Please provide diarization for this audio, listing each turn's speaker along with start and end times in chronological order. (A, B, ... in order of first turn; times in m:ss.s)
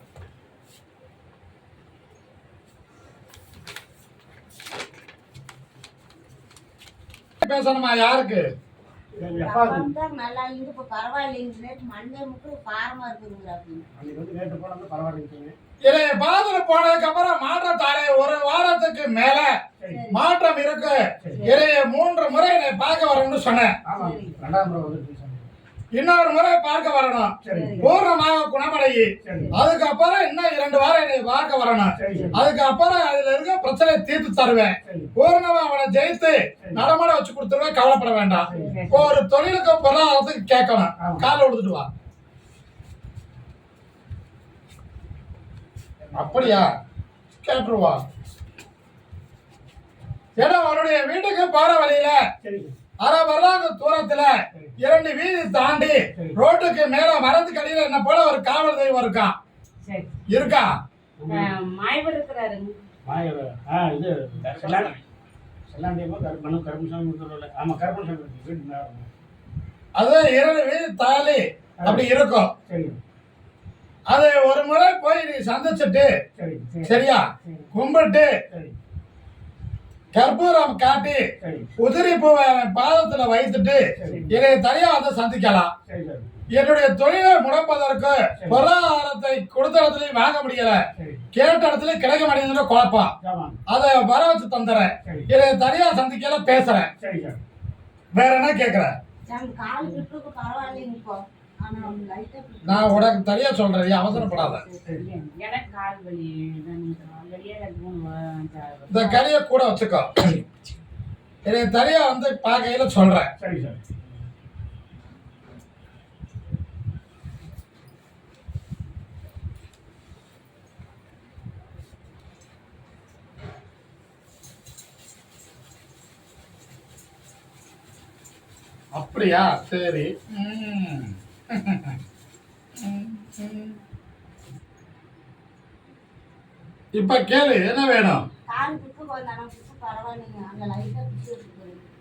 0:07.4-0:08.5 A
0:09.2-0:09.9 B
0:09.3-0:13.9 C
0:14.0-0:15.6 B
0:15.8-0:19.5 A
0:19.8-0:20.0 B
0:19.9-0:20.2 C
0:20.1-0:23.8 A
0:23.9-0:25.5 B
0:24.0-0:24.4 C
0:25.9-0:41.9 A
0:27.4-0:27.9 B
0:27.5-0:27.9 C
0:29.2-0:29.6 B
0:32.0-0:32.4 B
0:34.8-0:35.1 B
0:36.6-0:36.9 B
0:38.5-0:39.1 B
0:38.5-0:38.9 C
0:38.7-0:39.1 D
0:41.0-0:41.3 B
0:46.0-0:46.7 B
0:46.2-0:46.7 A
0:47.4-0:48.0 A
0:50.4-0:52.2 A
0:52.4-0:52.8 B
0:53.0-0:59.4 A
0:59.8-1:00.2 D
1:00.3-1:00.7 A
1:01.2-1:01.5 B
1:01.3-1:02.9 D
1:03.0-1:05.0 B
1:05.7-1:09.1 B
1:10.0-1:12.5 A
1:11.8-1:12.1 B
1:12.6-1:13.0 B
1:14.1-1:16.1 A
1:16.4-1:16.8 B
1:16.8-1:17.7 D
1:16.9-1:18.4 A
1:18.5-1:18.8 B
1:20.1-1:21.3 A
1:21.4-1:21.7 B
1:21.8-1:25.7 A
1:24.0-1:24.3 B
1:24.0-1:24.3 D
1:25.9-1:26.3 B
1:26.5-1:30.8 A
1:28.4-1:28.7 B
1:31.0-1:31.2 B
1:31.3-1:33.1 A
1:33.2-1:33.6 B
1:33.7-1:36.9 A
1:35.0-1:35.3 B
1:37.0-1:37.4 B
1:38.1-1:39.0 A
1:39.3-1:43.2 C
1:42.7-1:44.6 A
1:44.1-1:44.9 C
1:44.9-1:49.2 D
1:48.9-1:50.4 A
1:51.4-1:53.3 A
1:53.4-1:53.8 B
2:08.9-2:12.0 A
2:12.8-2:13.8 A
2:16.9-2:18.2 A
2:18.5-2:21.9 C